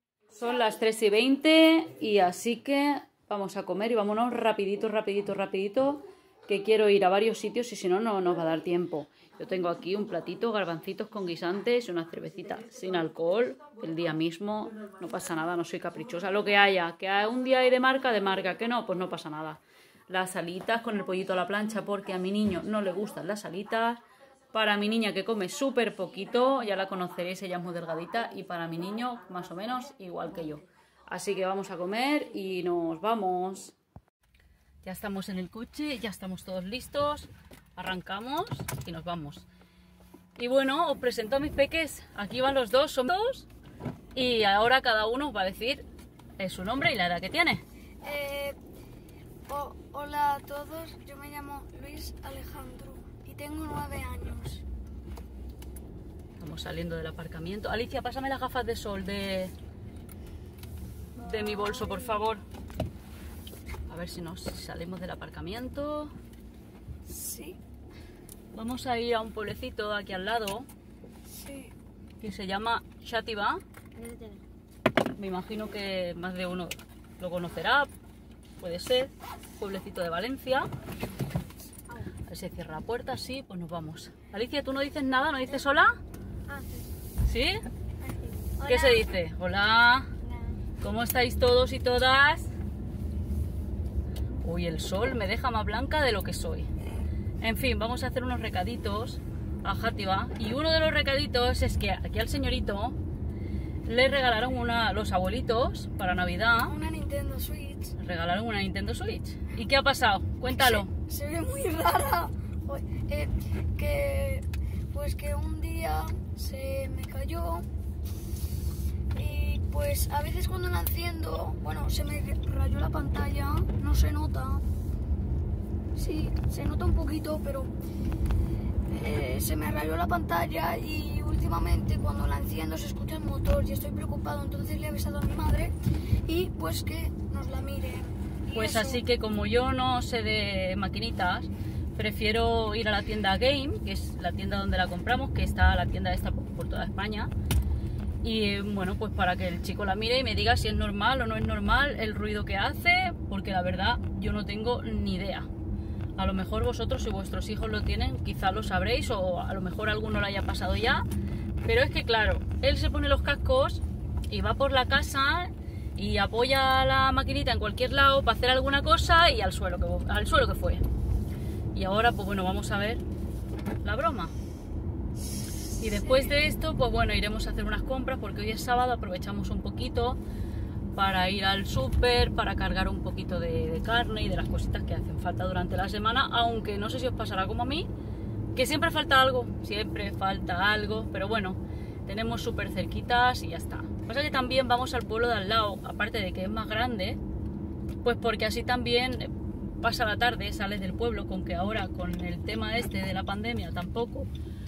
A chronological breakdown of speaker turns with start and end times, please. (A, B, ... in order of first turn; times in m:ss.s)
0:00.3-0:33.7 A
0:34.8-0:39.4 A
0:40.4-0:43.5 A
0:44.1-0:45.8 A
0:46.4-0:47.6 A
0:48.0-0:48.6 B
0:49.5-0:54.6 B
0:56.4-0:59.5 A
1:01.2-1:02.4 A
1:01.2-1:02.3 B
1:03.9-1:06.1 A
1:07.0-1:07.6 B
1:08.5-1:10.7 A
1:11.2-1:11.7 B
1:12.2-1:13.6 A
1:15.1-1:17.9 A
1:18.6-1:20.7 A
1:22.2-1:26.0 A
1:27.2-1:27.6 A
1:28.1-1:29.0 B
1:28.6-1:30.1 A
1:30.2-1:30.6 B
1:30.8-1:32.5 A
1:34.4-1:36.7 A
1:37.4-1:43.0 A
1:43.8-1:46.7 A
1:46.6-1:47.9 B
1:48.0-1:50.9 A
1:50.5-1:57.7 B
1:59.1-2:04.6 B
2:05.9-2:07.7 B
2:08.9-2:19.0 B
2:18.5-2:27.3 A
2:28.2-2:35.5 A
2:36.2-2:41.0 A
2:41.6-2:50.8 A
2:51.7-2:53.0 A
2:53.8-2:54.3 A
2:55.8-3:00.2 A
3:00.9-3:07.9 A
3:08.5-3:17.2 A
3:18.0-3:24.3 A